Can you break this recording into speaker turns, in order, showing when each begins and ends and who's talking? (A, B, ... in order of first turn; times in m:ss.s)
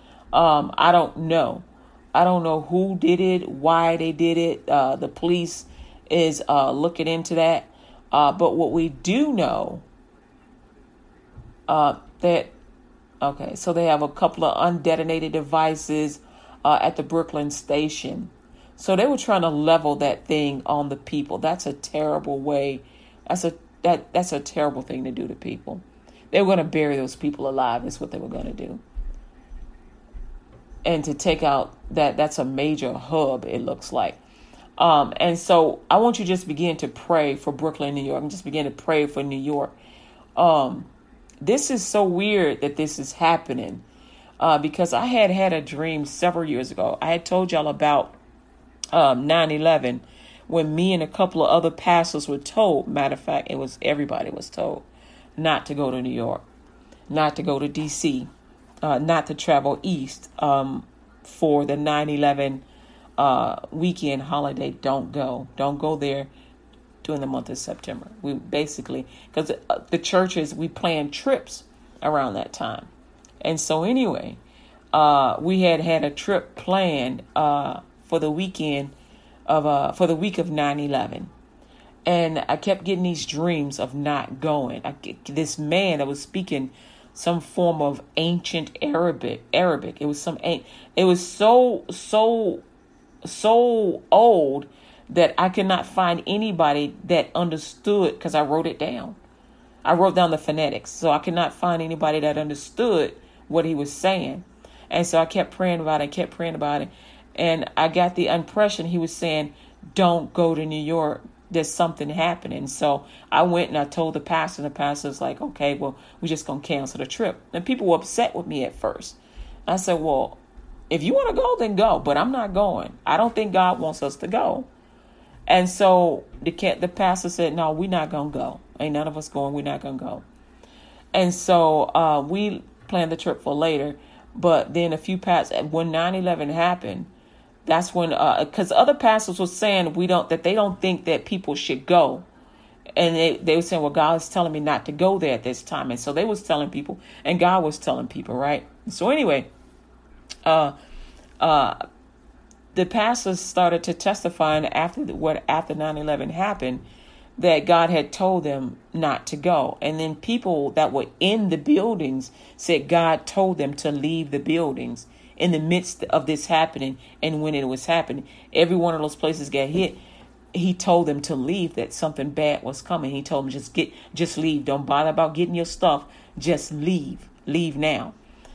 0:00.3-0:09.8 A
0:11.7-0:12.5 A
0:13.2-0:28.8 A
0:30.8-0:34.2 A
0:34.8-0:39.8 A
0:40.4-0:40.9 A
0:41.4-0:43.8 A
0:44.4-0:48.2 A
0:48.9-0:54.9 A
0:55.4-0:56.4 A
0:57.1-0:58.3 A
0:58.8-1:02.6 A
1:03.2-1:06.3 A
1:07.0-1:12.9 A
1:13.4-1:14.4 A
1:14.9-1:18.9 A
1:19.5-1:21.3 A
1:22.1-1:32.6 A
1:33.2-1:39.2 A
1:39.8-2:04.7 A
2:05.5-2:10.2 A
2:11.1-2:17.1 A
2:17.7-2:22.3 A
2:23.0-2:29.5 A
2:30.4-2:30.8 A
2:31.4-2:31.8 A
2:32.7-2:36.8 A
2:37.4-2:50.0 A
2:50.5-2:58.2 A